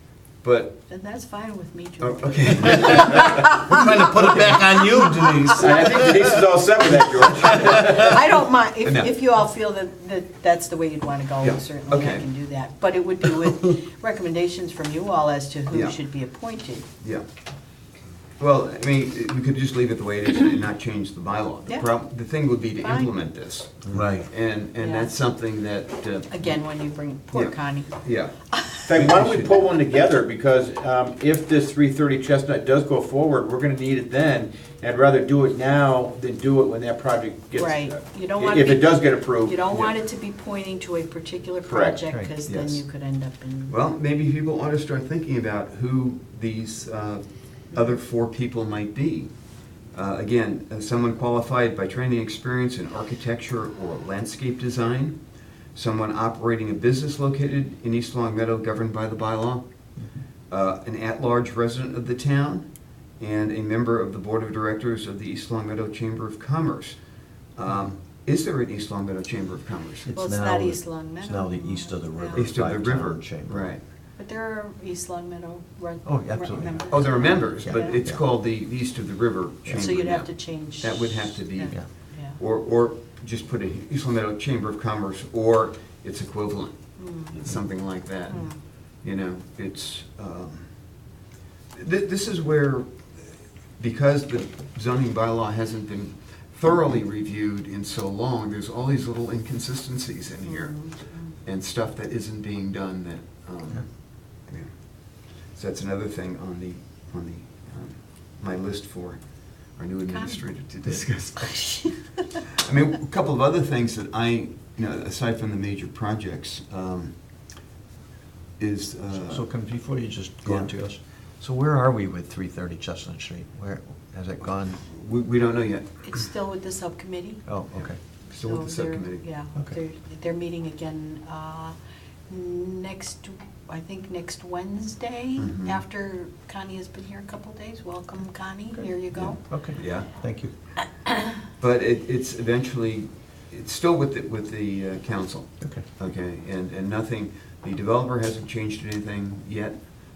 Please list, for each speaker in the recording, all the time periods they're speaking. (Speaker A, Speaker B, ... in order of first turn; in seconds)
Speaker A: 0.4-0.8, 2.0-3.2, 8.8-9.1, 11.4-12.2, 15.7-16.0, 18.4-26.5, 27.3-28.3, 28.9-29.6, 42.5-42.8, 43.7-49.3, 49.9-55.2, 55.7-59.6, 60.5-62.6, 63.2-67.0, 67.5-70.1, 72.3-73.8, 76.9-81.8, 82.4-90.8, 91.7-92.9, 93.8-100.8, 101.4-104.7, 105.5-111.9, 112.4-117.1, 118.6-119.4, 120.4-120.7, 124.8-125.9, 127.8-129.3, 135.4-135.8, 139.7-140.1, 141.5-149.8
Speaker B: 0.9-3.8, 5.2-5.5, 7.6-16.9, 22.8-23.1, 24.8-25.1, 26.3-28.8, 37.5-43.7, 70.1-72.5, 74.2-78.0, 79.7-82.4, 87.0-87.4, 88.3-88.5, 100.4-101.3, 110.1-110.4, 111.4-112.0, 126.0-127.4, 128.3-131.8, 132.3-139.4
Speaker C: 2.8-8.2, 28.9-39.5, 41.6-42.0
Speaker D: 3.8-6.0, 23.9-24.2, 70.0-73.7, 76.0-77.0, 77.6-78.2, 119.1-124.8, 127.5-128.0, 138.7-140.5